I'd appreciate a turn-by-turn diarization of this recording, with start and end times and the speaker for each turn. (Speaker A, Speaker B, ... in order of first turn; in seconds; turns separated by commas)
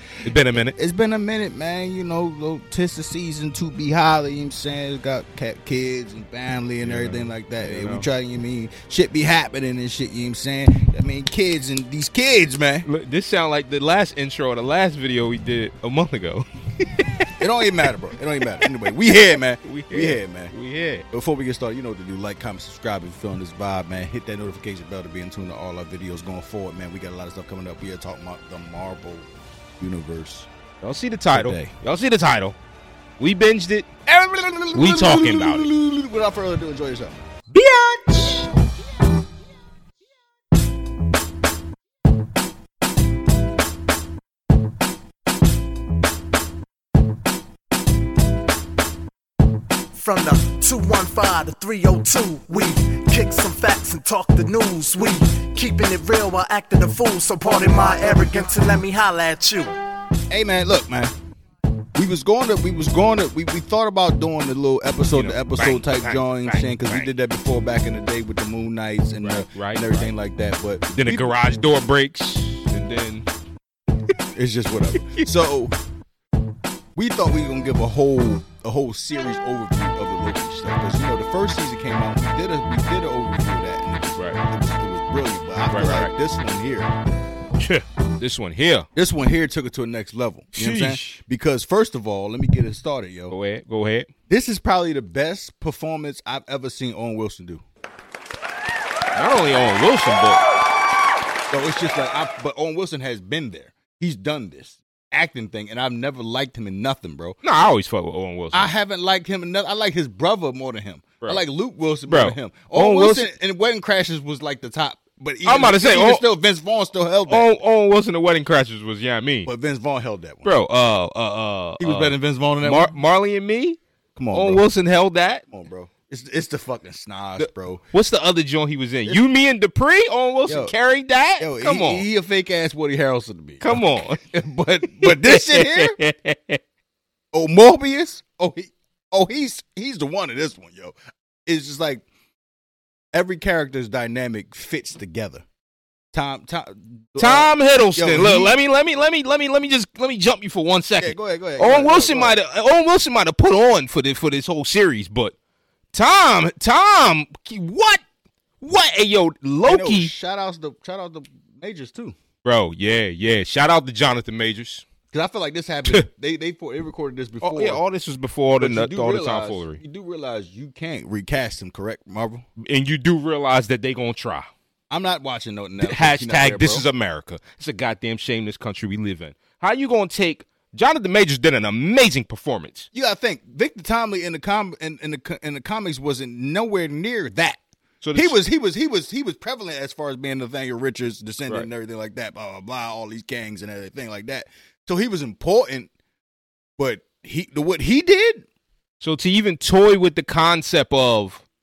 Speaker A: 0.2-0.7, Speaker B: 0.5-12.9, Speaker A: 6.8-8.1, Speaker A: 12.8-17.3, Speaker B: 17.4-20.5, Speaker A: 19.6-21.0, Speaker B: 21.1-30.5, Speaker A: 30.8-32.5, Speaker B: 31.3-31.7, Speaker A: 33.2-33.9, Speaker B: 34.1-37.2, Speaker A: 34.7-35.7, Speaker A: 37.5-38.5, Speaker C: 49.9-59.7, Speaker B: 60.3-61.1, Speaker B: 62.0-71.3, Speaker A: 65.1-67.1, Speaker A: 69.2-70.1, Speaker A: 70.9-73.3, Speaker B: 74.3-75.8, Speaker B: 76.9-86.9, Speaker A: 85.7-86.1, Speaker A: 87.6-88.9, Speaker B: 89.0-93.3, Speaker A: 90.5-91.2, Speaker A: 93.3-94.1, Speaker B: 94.3-97.6, Speaker A: 99.1-100.4, Speaker B: 101.5-107.4, Speaker A: 107.4-108.7, Speaker B: 108.5-117.5, Speaker A: 112.1-113.2, Speaker A: 115.4-116.2, Speaker A: 117.3-119.5, Speaker B: 119.4-120.5, Speaker A: 120.4-123.8, Speaker B: 121.8-122.9, Speaker B: 124.1-124.6, Speaker A: 124.3-125.4, Speaker B: 125.5-127.8, Speaker A: 127.4-132.1, Speaker B: 130.4-130.7, Speaker B: 131.4-135.9, Speaker A: 133.6-134.2, Speaker A: 135.0-136.6, Speaker B: 137.3-142.0, Speaker B: 143.1-145.4, Speaker B: 146.1-148.5, Speaker A: 147.2-155.3, Speaker B: 151.0-152.4, Speaker A: 155.9-158.0, Speaker A: 158.6-160.1, Speaker B: 159.7-162.2, Speaker A: 162.4-164.8, Speaker B: 165.1-167.8, Speaker A: 167.4-169.8, Speaker B: 168.6-172.4, Speaker A: 172.6-174.5, Speaker B: 174.9-176.8, Speaker A: 175.8-182.9, Speaker B: 182.9-187.6, Speaker A: 188.0-188.4, Speaker B: 188.1-195.9, Speaker B: 196.8-198.4, Speaker A: 199.0-201.4